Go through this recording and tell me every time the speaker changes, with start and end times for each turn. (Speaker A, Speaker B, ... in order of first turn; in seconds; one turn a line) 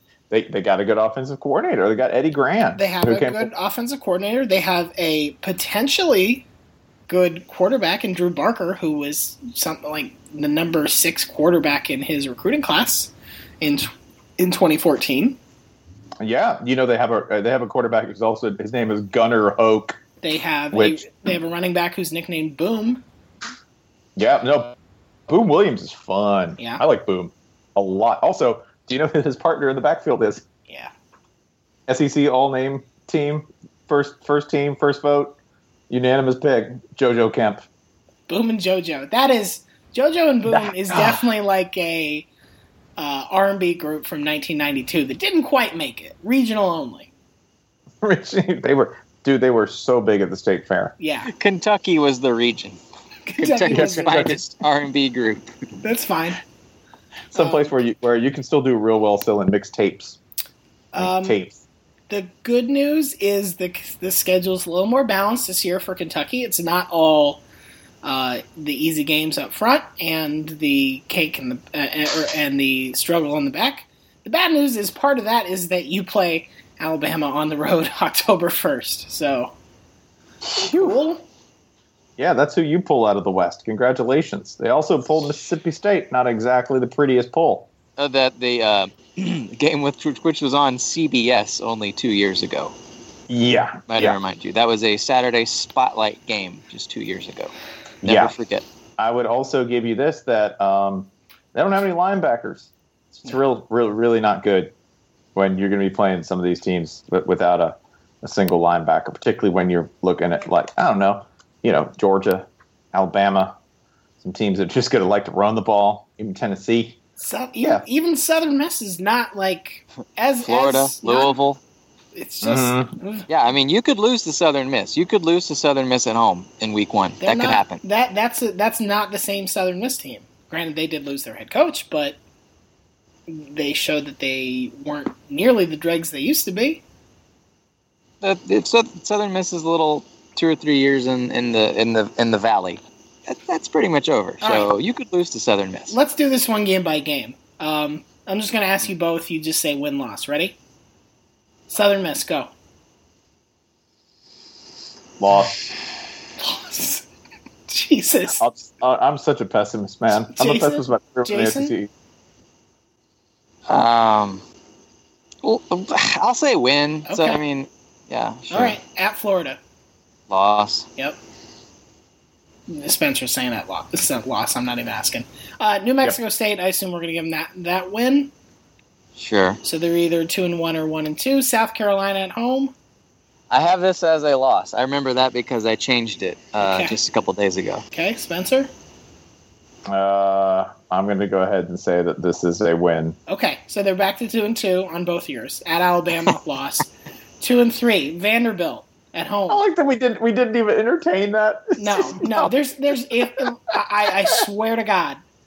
Speaker A: 0.3-3.5
Speaker B: 2.8-6.4
Speaker B: 7.1-15.4
Speaker A: 16.2-20.0
Speaker B: 20.2-23.0
Speaker A: 20.7-21.0
Speaker A: 24.2-24.7
Speaker A: 25.3-30.4
Speaker B: 26.6-26.8
Speaker A: 31.9-35.4
Speaker A: 35.9-37.6
Speaker B: 38.3-42.3
Speaker A: 40.5-41.2
Speaker B: 43.0-47.1
Speaker A: 48.0-50.9
Speaker B: 51.0-51.3
Speaker C: 51.3-52.8
Speaker B: 53.3-54.4
Speaker C: 53.4-55.5
Speaker A: 53.7-54.4
Speaker B: 55.8-56.4
Speaker A: 57.3-60.2
Speaker B: 57.3-57.8
Speaker B: 60.9-61.4
Speaker A: 61.0-61.6
Speaker B: 62.1-67.4
Speaker B: 68.0-79.5
Speaker A: 80.5-81.0
Speaker B: 80.6-81.2
Speaker A: 82.2-87.7
Speaker C: 88.0-92.7
Speaker A: 93.3-94.2
Speaker C: 93.9-97.5
Speaker A: 98.0-98.3
Speaker C: 98.0-98.6
Speaker A: 99.0-104.7
Speaker A: 105.3-113.5
Speaker A: 114.2-117.0
Speaker B: 117.2-121.4
Speaker C: 120.4-121.6
Speaker B: 122.1-123.3
Speaker A: 122.4-122.9
Speaker C: 123.3-127.8
Speaker B: 127.2-132.2
Speaker B: 133.3-136.8
Speaker C: 138.2-146.0
Speaker B: 144.4-144.7
Speaker B: 145.9-150.6
Speaker B: 151.7-152.5
Speaker A: 155.2-155.6
Speaker B: 156.4-157.0
Speaker B: 157.7-158.4
Speaker A: 158.4-161.9
Speaker B: 160.3-161.7
Speaker C: 163.7-164.4
Speaker C: 165.4-168.8
Speaker B: 167.1-167.4
Speaker B: 168.5-169.6
Speaker C: 170.3-170.9
Speaker B: 172.7-178.3
Speaker C: 179.2-179.6
Speaker B: 179.6-182.7
Speaker C: 183.5-187.8
Speaker B: 186.6-187.0
Speaker B: 187.9-188.7
Speaker A: 189.9-193.2
Speaker B: 193.3-196.9
Speaker B: 197.4-199.6
Speaker A: 199.5-202.5
Speaker B: 201.8-205.2
Speaker A: 203.1-204.4